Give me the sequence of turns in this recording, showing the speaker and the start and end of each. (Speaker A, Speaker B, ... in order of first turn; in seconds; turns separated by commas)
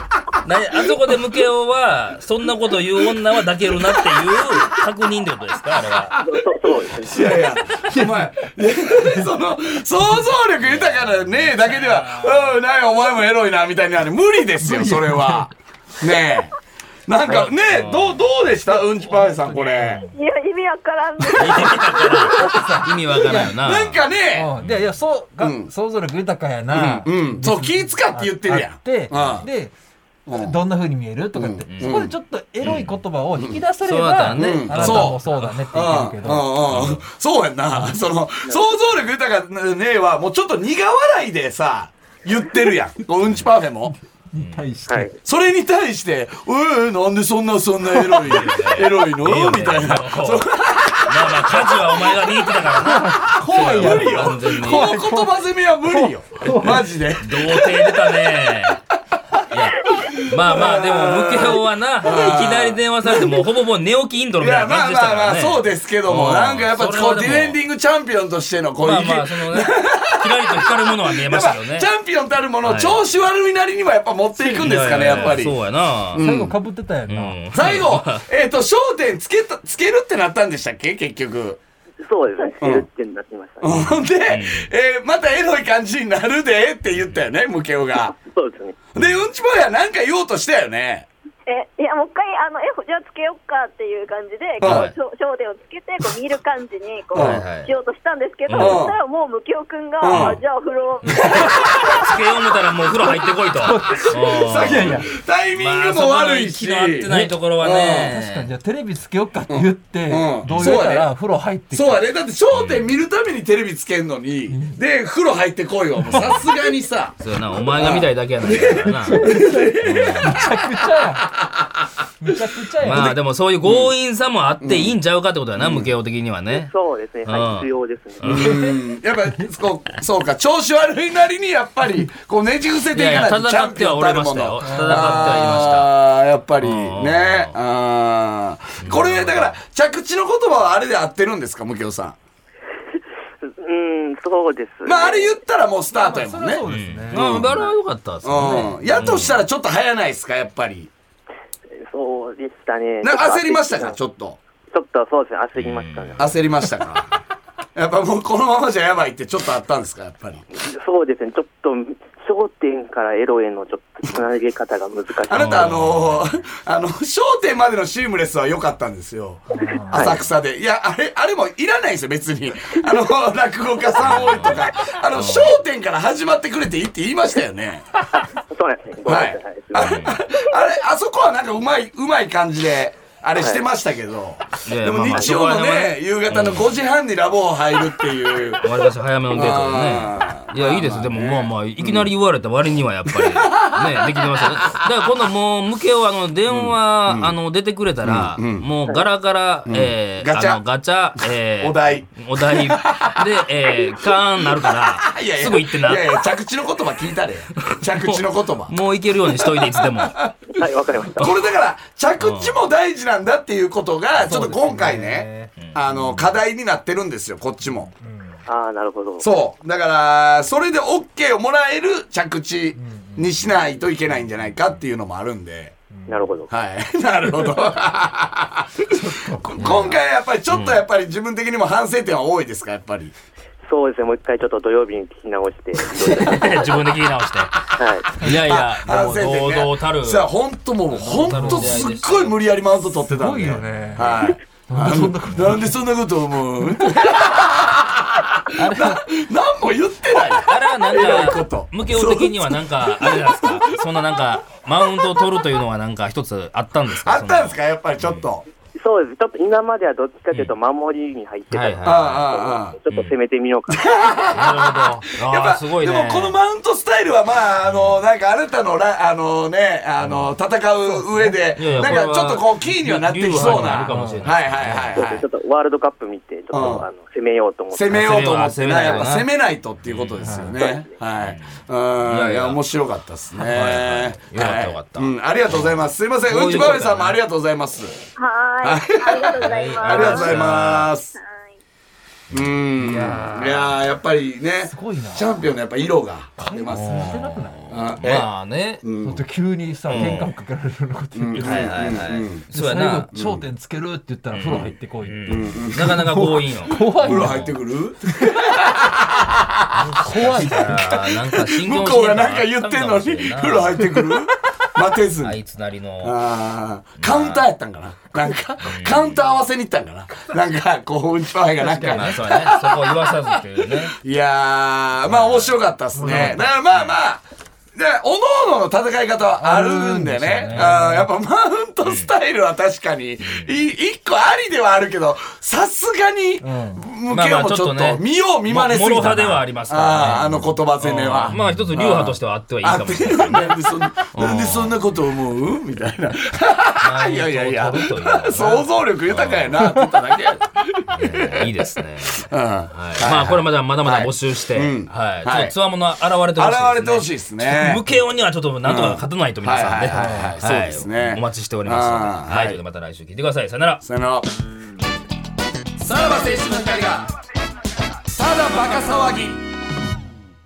Speaker A: 0.4-6.2, Speaker B: 6.2-7.3, Speaker C: 7.0-16.5, Speaker D: 7.9-9.4, Speaker A: 10.6-12.6, Speaker D: 14.6-15.5, Speaker C: 17.1-20.0, Speaker A: 17.2-18.3, Speaker D: 18.7-20.1, Speaker E: 20.1-22.5, Speaker A: 21.3-24.0, Speaker D: 22.3-23.6, Speaker C: 23.3-24.5, Speaker D: 24.3-29.8, Speaker A: 24.6-24.9, Speaker C: 25.4-25.7, Speaker C: 26.7-29.5, Speaker A: 29.1-29.5, Speaker C: 30.3-30.6, Speaker D: 30.3-36.6, Speaker C: 31.3-32.2, Speaker A: 31.7-33.0, Speaker A: 33.8-35.5, Speaker C: 34.3-44.0, Speaker A: 36.7-37.0, Speaker D: 37.7-38.0, Speaker D: 44.2-45.1, Speaker A: 44.4-44.7, Speaker B: 44.9-45.1, Speaker C: 45.2-58.7, Speaker D: 47.9-48.2, Speaker A: 48.2-50.5, Speaker A: 51.1-54.9, Speaker D: 52.8-57.0, Speaker A: 56.5-58.8, Speaker A: 59.5-67.6, Speaker C: 60.3-63.4, Speaker C: 64.4-75.6, Speaker A: 68.8-71.9, Speaker A: 72.6-73.0, Speaker D: 74.4-75.4, Speaker A: 74.5-76.3, Speaker C: 76.1-76.6, Speaker D: 76.2-77.5, Speaker A: 77.0-78.2, Speaker C: 77.5-81.6, Speaker B: 82.0-83.9, Speaker C: 82.6-82.9, Speaker C: 83.6-88.1, Speaker A: 83.7-84.7, Speaker A: 87.0-87.3, Speaker B: 88.2-88.8, Speaker C: 88.9-91.1, Speaker A: 89.0-89.3, Speaker E: 91.5-102.2, Speaker A: 94.6-95.0, Speaker C: 94.6-94.9, Speaker C: 97.1-97.4, Speaker A: 97.1-97.8, Speaker A: 98.5-98.8, Speaker C: 98.5-99.0, Speaker C: 100.0-100.4, Speaker A: 100.1-100.4, Speaker C: 101.2-101.8, Speaker A: 101.9-108.5, Speaker D: 103.5-105.1, Speaker C: 104.2-108.2, Speaker D: 107.0-112.0, Speaker C: 109.5-111.1, Speaker A: 110.5-110.8, Speaker C: 111.7-117.2, Speaker A: 112.5-112.9, Speaker D: 114.5-114.8, Speaker D: 116.1-116.4, Speaker A: 117.2-120.4, Speaker C: 117.7-121.6, Speaker D: 119.0-119.7, Speaker D: 120.2-121.3, Speaker D: 122.2-123.2, Speaker A: 122.8-126.7, Speaker C: 123.6-123.9, Speaker C: 124.6-125.0, Speaker C: 125.6-126.0, Speaker B: 126.5-128.5, Speaker A: 127.2-128.6, Speaker C: 128.2-142.2, Speaker D: 128.5-128.8, Speaker A: 132.9-135.9, Speaker D: 134.6-135.5, Speaker A: 136.6-137.5, Speaker A: 138.8-139.6, Speaker B: 143.6-145.4, Speaker C: 144.8-147.6, Speaker D: 145.9-147.7, Speaker A: 146.7-149.4, Speaker C: 148.2-150.9, Speaker D: 148.3-149.1, Speaker B: 151.9-154.0, Speaker C: 153.0-154.4, Speaker B: 154.7-156.4, Speaker A: 155.6-156.8, Speaker C: 156.2-157.1, Speaker C: 157.8-160.4, Speaker B: 160.5-165.7, Speaker C: 165.3-177.9, Speaker A: 165.3-166.2, Speaker D: 169.5-170.1, Speaker B: 169.9-170.2, Speaker A: 174.0-175.5, Speaker B: 178.3-180.2, Speaker C: 179.0-188.7, Speaker A: 179.8-180.2, Speaker A: 184.7-186.7, Speaker A: 188.6-206.4, Speaker C: 189.3-192.1, Speaker C: 193.1-195.0, Speaker C: 196.5-197.3, Speaker C: 198.0-198.7, Speaker C: 199.7-200.6, Speaker C: 201.6-203.8, Speaker C: 204.5-210.3, Speaker A: 207.6-210.2, Speaker B: 210.5-211.4, Speaker C: 211.2-217.9, Speaker A: 212.2-212.6, Speaker D: 214.2-215.5, Speaker A: 215.6-216.3, Speaker D: 217.6-218.4, Speaker B: 218.5-219.2, Speaker C: 219.2-225.8, Speaker D: 222.8-223.5, Speaker D: 225.9-226.4, Speaker B: 226.1-226.5, Speaker C: 226.5-228.6, Speaker D: 228.9-230.0, Speaker C: 229.4-233.1, Speaker A: 229.6-230.8, Speaker B: 233.6-236.8, Speaker A: 236.0-240.3, Speaker B: 237.8-238.1, Speaker C: 238.4-253.6, Speaker A: 240.9-242.4, Speaker D: 241.0-241.9, Speaker D: 242.9-245.8, Speaker D: 246.6-246.9, Speaker D: 248.5-249.1, Speaker A: 250.4-258.2, Speaker C: 256.9-258.5, Speaker B: 258.8-264.3, Speaker A: 261.5-262.3, Speaker C: 261.8-262.8, Speaker A: 262.9-263.2, Speaker C: 263.8-275.3, Speaker A: 264.3-266.4, Speaker A: 267.6-268.0, Speaker A: 270.0-270.3, Speaker D: 270.8-272.0, Speaker A: 271.5-275.1, Speaker D: 273.3-274.4, Speaker B: 274.9-279.0, Speaker C: 276.5-276.9, Speaker C: 277.7-287.9, Speaker A: 277.9-279.3, Speaker A: 279.8-280.5, Speaker D: 280.2-280.6, Speaker B: 280.6-280.9, Speaker A: 281.2-282.6, Speaker A: 283.4-287.2, Speaker E: 288.2-290.6, Speaker C: 288.6-291.1, Speaker A: 289.4-290.9, Speaker E: 291.1-291.6, Speaker A: 292.3-293.8, Speaker C: 292.3-298.3, Speaker D: 294.6-295.4, Speaker D: 296.4-298.0, Speaker A: 296.7-298.9, Speaker C: 298.8-299.3, Speaker D: 299.0-301.9, Speaker A: 299.9-300.3, Speaker C: 299.9-300.3, Speaker C: 301.1-302.5, Speaker A: 301.4-303.1, Speaker D: 302.5-307.5, Speaker C: 303.1-303.5, Speaker A: 304.3-307.6, Speaker C: 305.3-306.1, Speaker C: 307.0-309.4, Speaker D: 308.2-308.5, Speaker D: 309.7-311.3, Speaker C: 310.0-310.8, Speaker A: 310.0-314.0, Speaker C: 311.4-315.4, Speaker A: 315.2-316.1, Speaker C: 316.0-327.2, Speaker A: 317.0-317.5, Speaker A: 318.6-319.3, Speaker D: 321.6-322.3, Speaker A: 321.8-323.9, Speaker A: 325.0-327.0, Speaker D: 325.9-326.5, Speaker C: 327.8-351.5, Speaker D: 329.4-331.1, Speaker A: 330.5-330.8, Speaker A: 331.9-332.1, Speaker A: 333.2-333.5, Speaker D: 336.4-336.8, Speaker A: 337.1-343.6, Speaker D: 341.3-341.7, Speaker A: 344.1-344.8, Speaker A: 346.8-349.7, Speaker A: 350.9-363.8, Speaker C: 352.2-355.6, Speaker C: 356.3-357.9, Speaker C: 358.6-362.6, Speaker D: 359.9-360.5, Speaker C: 363.8-364.3, Speaker C: 365.8-367.1, Speaker C: 368.1-369.4